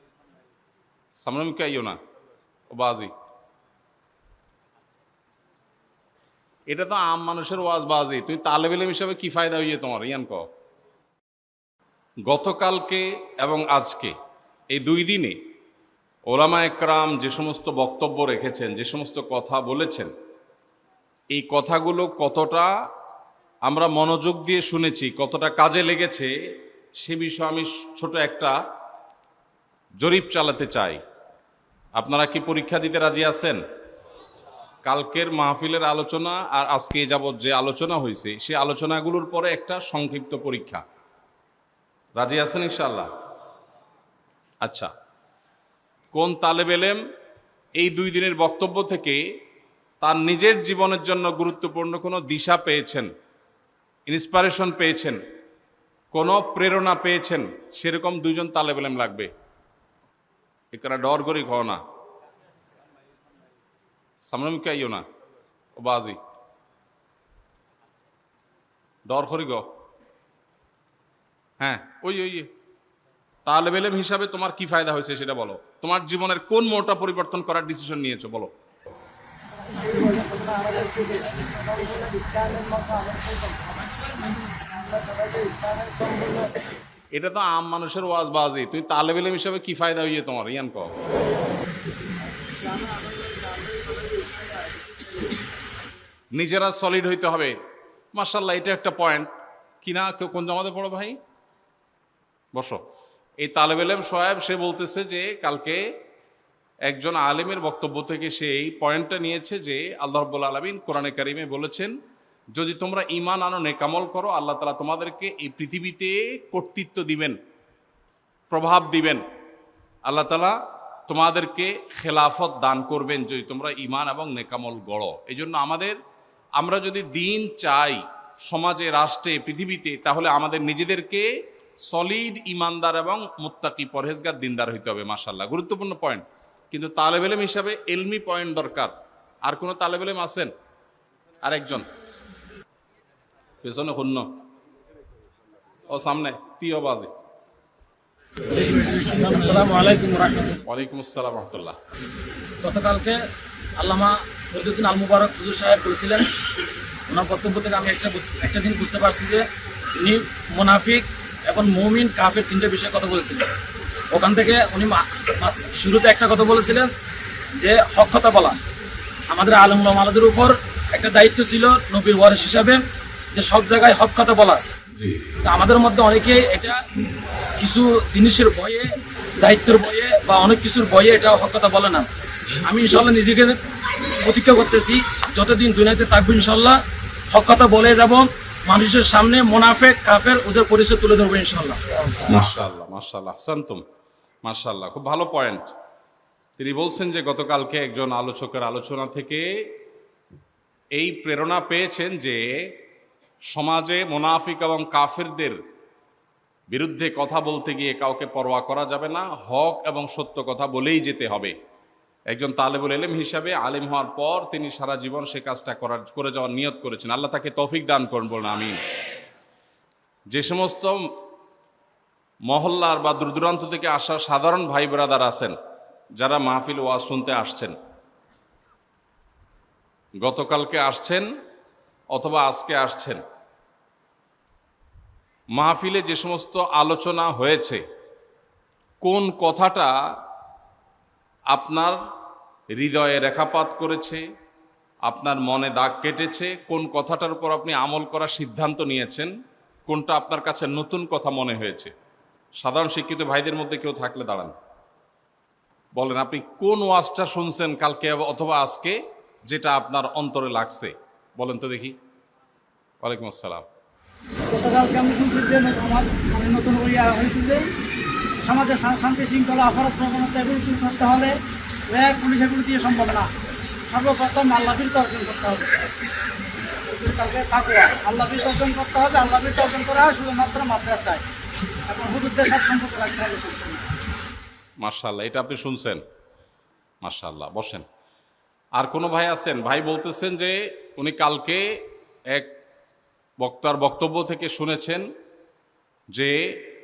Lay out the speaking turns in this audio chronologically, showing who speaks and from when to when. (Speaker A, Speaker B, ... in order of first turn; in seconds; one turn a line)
Speaker A: 1.2-2.0
Speaker A: 2.7-3.1
Speaker A: 6.7-10.4
Speaker A: 12.3-14.1
Speaker A: 14.7-15.4
Speaker A: 16.3-20.1
Speaker A: 21.3-22.7
Speaker A: 23.7-26.3
Speaker A: 27.0-28.5
Speaker A: 30.0-31.0
Speaker A: 32.0-33.6
Speaker A: 34.8-40.8
Speaker A: 42.2-43.1
Speaker A: 44.6-44.9
Speaker A: 46.1-47.0
Speaker A: 47.8-49.2
Speaker A: 50.0-53.1
Speaker A: 54.1-55.2
Speaker A: 56.1-59.3
Speaker A: 60.7-61.8
Speaker A: 64.3-65.0
Speaker A: 65.8-66.2
Speaker A: 69.1-69.7
Speaker A: 71.6-72.5
Speaker A: 73.5-78.5
Speaker B: 79.8-83.9
Speaker B: 84.6-86.5
Speaker A: 87.1-90.9
Speaker B: 92.7-95.0
Speaker A: 96.3-97.6
Speaker A: 98.2-99.3
Speaker A: 99.8-101.2
Speaker A: 102.5-102.8
Speaker A: 103.4-105.8
Speaker A: 106.9-112.0
Speaker A: 112.5-117.4
Speaker A: 118.5-119.2
Speaker A: 120.1-126.0
Speaker A: 126.6-131.3
Speaker A: 131.9-138.9
Speaker A: 139.5-140.5
Speaker A: 141.4-141.9
Speaker A: 143.6-144.3
Speaker A: 145.9-147.1
Speaker C: 148.5-150.6
Speaker A: 150.7-151.8
Speaker C: 152.6-153.2
Speaker C: 153.8-156.3
Speaker C: 157.1-159.4
Speaker C: 160.0-163.5
Speaker C: 164.1-166.9
Speaker C: 167.6-168.6
Speaker C: 169.3-172.8
Speaker C: 173.3-174.6
Speaker C: 175.5-176.8
Speaker C: 177.6-182.1
Speaker C: 182.6-183.6
Speaker C: 184.2-186.8
Speaker C: 187.3-191.8
Speaker A: 192.3-193.8
Speaker A: 194.4-195.7
Speaker A: 196.6-199.5
Speaker A: 201.0-202.7
Speaker A: 203.5-205.6
Speaker A: 206.7-211.6
Speaker A: 212.3-218.8
Speaker A: 220.3-221.0
Speaker A: 222.5-225.6
Speaker A: 226.2-227.8
Speaker A: 230.2-231.3
Speaker A: 232.1-233.2
Speaker A: 235.6-237.8
Speaker A: 239.0-239.9
Speaker A: 241.5-242.0
Speaker A: 242.8-244.2
Speaker A: 245.1-249.3
Speaker A: 249.9-251.9
Speaker A: 252.6-254.5
Speaker A: 255.9-261.9
Speaker A: 263.0-263.6
Speaker B: 264.5-267.6
Speaker B: 268.4-271.4
Speaker B: 271.9-273.3
Speaker B: 273.9-275.7
Speaker B: 276.9-281.2
Speaker B: 281.9-283.8
Speaker A: 284.8-286.0
Speaker A: 287.0-287.9
Speaker A: 288.8-292.5
Speaker A: 293.4-295.1
Speaker A: 296.1-296.6